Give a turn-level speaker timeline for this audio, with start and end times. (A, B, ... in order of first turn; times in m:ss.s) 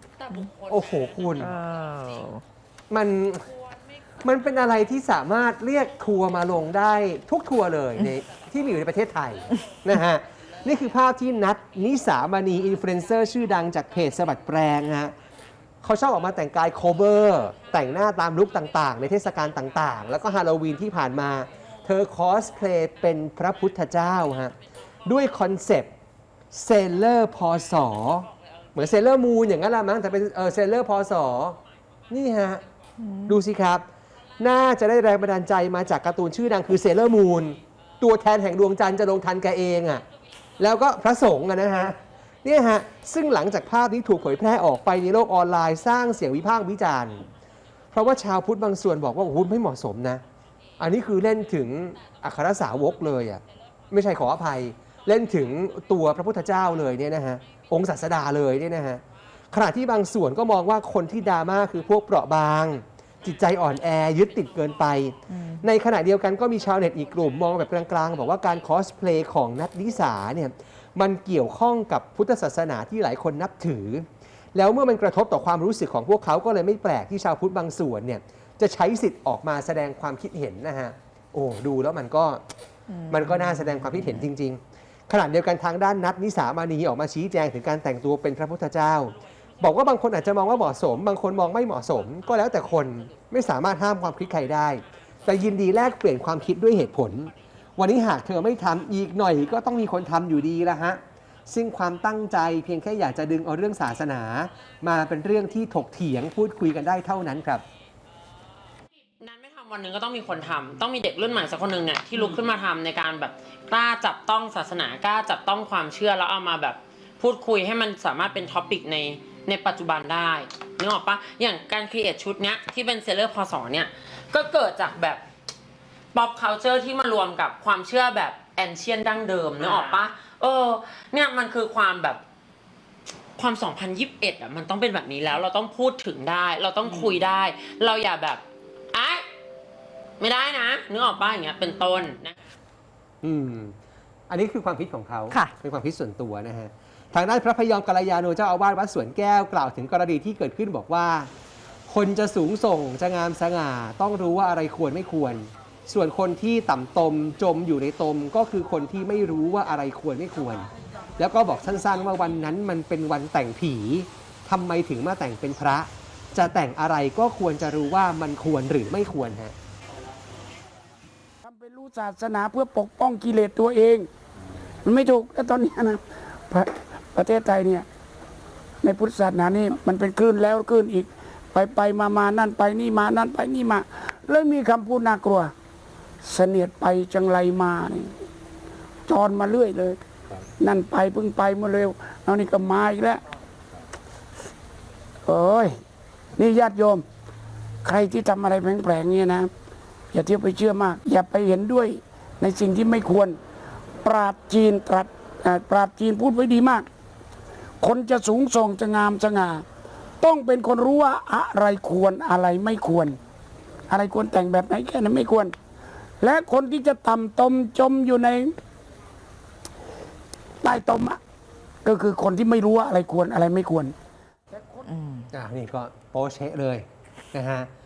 0:00.3-0:01.5 A
0:01.4-0:02.4 B
0:02.9-0:03.5 A
0:04.2-0:15.1 A
0:15.8-0:25.9 A
0:26.5-0:32.6 A
0:33.0-0:33.3 B
0:33.2-0:33.8 A
0:34.4-0:40.0 A
0:40.6-0:47.2 A
0:47.9-0:50.2 A
0:50.8-1:22.4 A
1:05.3-1:05.6 B
1:22.9-1:24.2 B
1:23.1-1:47.6 A
1:49.2-2:05.2 C
2:06.1-2:12.2 C
2:13.4-2:18.4 C
2:18.9-2:19.2 C
2:20.2-2:22.3 C
2:23.2-2:23.8 A
2:24.3-2:31.3 A
2:31.9-2:49.5 A
2:51.4-2:54.1 D
2:54.8-2:57.8 D
2:58.8-3:05.5 D
3:06.2-3:08.1 D
3:09.1-3:10.0 D
3:10.6-3:13.2 D
3:15.2-3:15.7 D
3:16.4-3:17.0 D
3:17.8-3:19.5 D
3:20.1-3:23.4 D
3:24.0-3:26.9 D
3:27.8-3:29.6 D
3:30.2-3:33.2 D
3:33.9-3:35.5 D
3:36.2-3:38.5 D
3:40.6-3:41.2 D
3:41.8-3:43.9 D
3:44.5-3:44.9 D
3:45.0-3:45.2 B
3:45.3-3:47.7 A